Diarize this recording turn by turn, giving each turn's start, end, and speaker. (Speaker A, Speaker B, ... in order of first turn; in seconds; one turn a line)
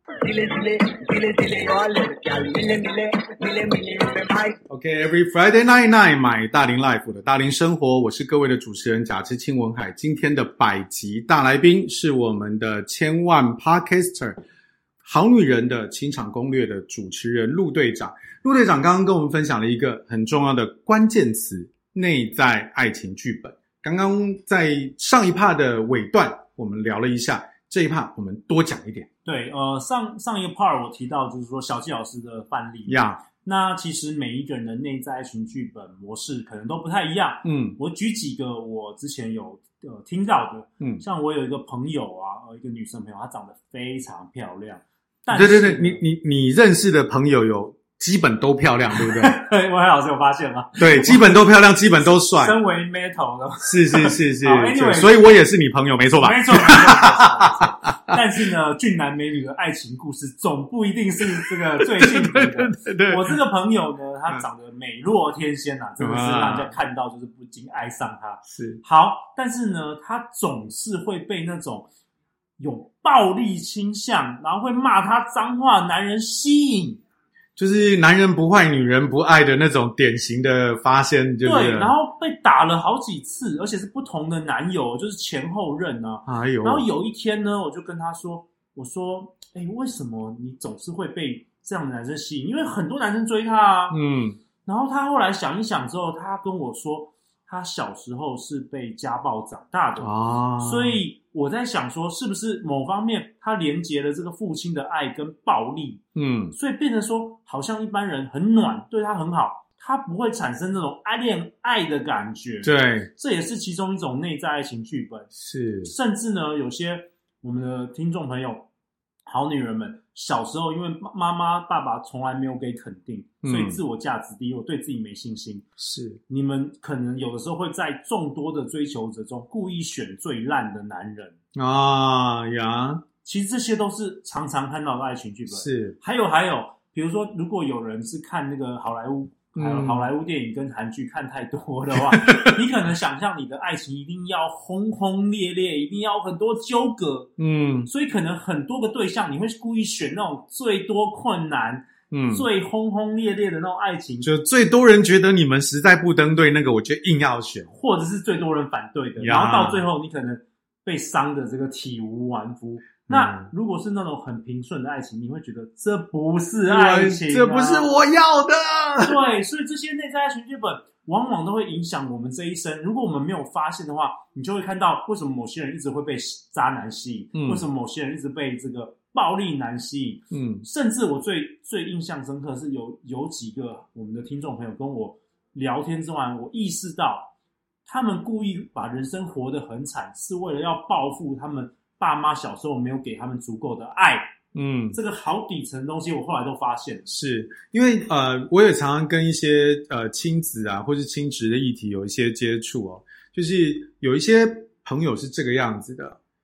Speaker A: 0.2-4.6
Speaker B: 4.7-14.4
Speaker B: 15.0-29.1
Speaker C: 29.2-46.0
Speaker B: 32.9-33.2
Speaker B: 37.4-37.8
Speaker B: 45.3-49.4
Speaker C: 48.9-51.4
Speaker B: 50.8-52.5
Speaker C: 52.0-55.3
Speaker B: 53.6-58.2
Speaker C: 56.2-71.9
Speaker B: 61.4-63.4
Speaker B: 66.0-66.7
Speaker B: 68.5-68.8
Speaker C: 72.6-77.0
Speaker B: 77.6-81.9
Speaker C: 81.4-94.0
Speaker B: 86.2-86.8
Speaker B: 93.9-94.4
Speaker C: 94.6-106.0
Speaker B: 100.0-101.0
Speaker B: 106.1-106.5
Speaker C: 106.5-115.3
Speaker B: 112.6-113.1
Speaker B: 115.3-115.9
Speaker C: 115.8-118.7
Speaker C: 119.2-125.7
Speaker B: 123.4-123.8
Speaker B: 125.8-126.2
Speaker C: 126.3-131.4
Speaker B: 131.5-133.0
Speaker C: 133.2-147.3
Speaker B: 135.5-136.0
Speaker B: 139.5-140.1
Speaker B: 142.1-142.7
Speaker B: 147.4-147.9
Speaker C: 147.9-154.3
Speaker B: 152.1-152.5
Speaker B: 154.2-157.7
Speaker C: 157.7-167.9
Speaker B: 159.2-159.9
Speaker B: 163.1-163.5
Speaker B: 166.7-169.2
Speaker C: 169.0-187.3
Speaker B: 177.3-177.6
Speaker B: 180.3-180.7
Speaker C: 187.8-194.3
Speaker B: 194.5-195.0
Speaker C: 194.9-197.1
Speaker B: 197.1-206.2